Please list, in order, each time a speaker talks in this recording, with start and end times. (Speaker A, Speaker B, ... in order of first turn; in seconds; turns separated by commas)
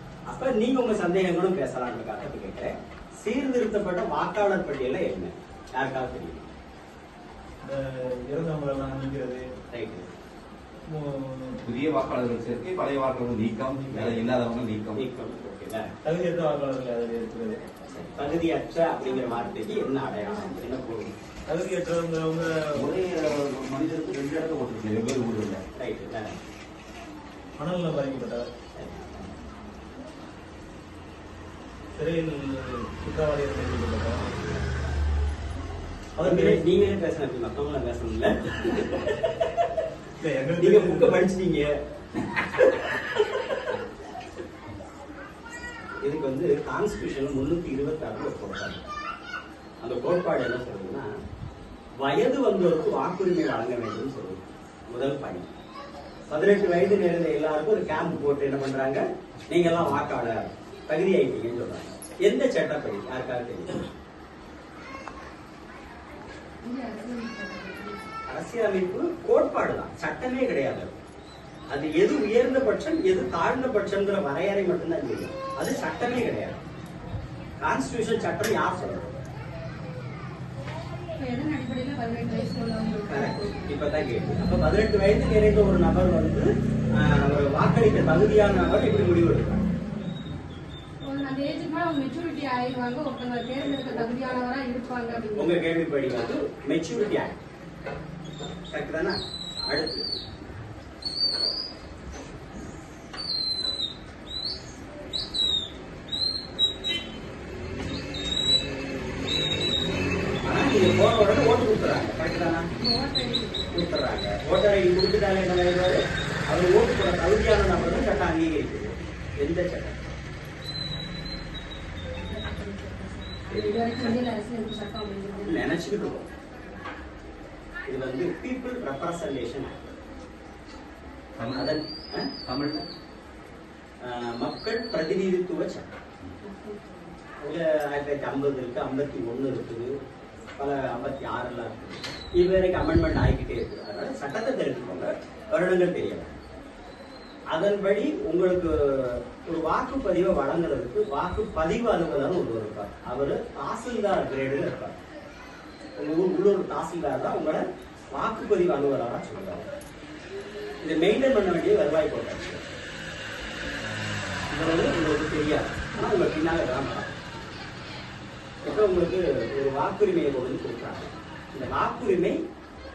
Speaker A: 0.3-6.5, Speaker B: 7.6-9.4, Speaker A: 9.7-10.1, Speaker B: 10.9-11.6, Speaker C: 11.6-15.0, Speaker B: 13.8-14.2, Speaker A: 14.9-15.9, Speaker B: 16.0-17.6, Speaker A: 17.9-21.1, Speaker D: 19.1-19.7, Speaker B: 21.5-22.8, Speaker C: 22.7-25.6, Speaker A: 25.7-26.4, Speaker B: 27.6-28.5, Speaker A: 28.7-29.3, Speaker B: 31.9-34.3, Speaker A: 34.3-34.6, Speaker B: 36.2-36.6, Speaker A: 36.2-39.6, Speaker B: 40.2-41.3, Speaker A: 40.6-41.7, Speaker A: 46.0-48.8, Speaker A: 49.8-51.1, Speaker A: 52.0-54.4, Speaker A: 54.9-55.5, Speaker A: 56.3-63.8, Speaker D: 66.6-68.1, Speaker A: 68.3-70.9, Speaker A: 71.7-76.6, Speaker A: 77.6-79.1, Speaker D: 81.2-83.8, Speaker A: 83.1-89.6, Speaker D: 91.0-95.6, Speaker A: 93.6-94.4, Speaker A: 95.3-97.4, Speaker A: 98.7-100.0, Speaker A: 110.4-112.7, Speaker D: 112.8-113.7, Speaker A: 113.7-120.0, Speaker D: 122.1-125.7, Speaker A: 123.5-124.2, Speaker A: 125.4-126.3, Speaker A: 127.9-129.9, Speaker C: 131.3-131.7, Speaker A: 131.5-132.3, Speaker C: 132.4-132.8, Speaker A: 134.0-135.9, Speaker D: 136.4-137.2, Speaker A: 137.4-139.9, Speaker A: 140.6-146.3, Speaker A: 147.5-155.0, Speaker A: 155.9-159.7, Speaker A: 160.8-162.7, Speaker A: 164.5-167.2, Speaker A: 168.6-172.4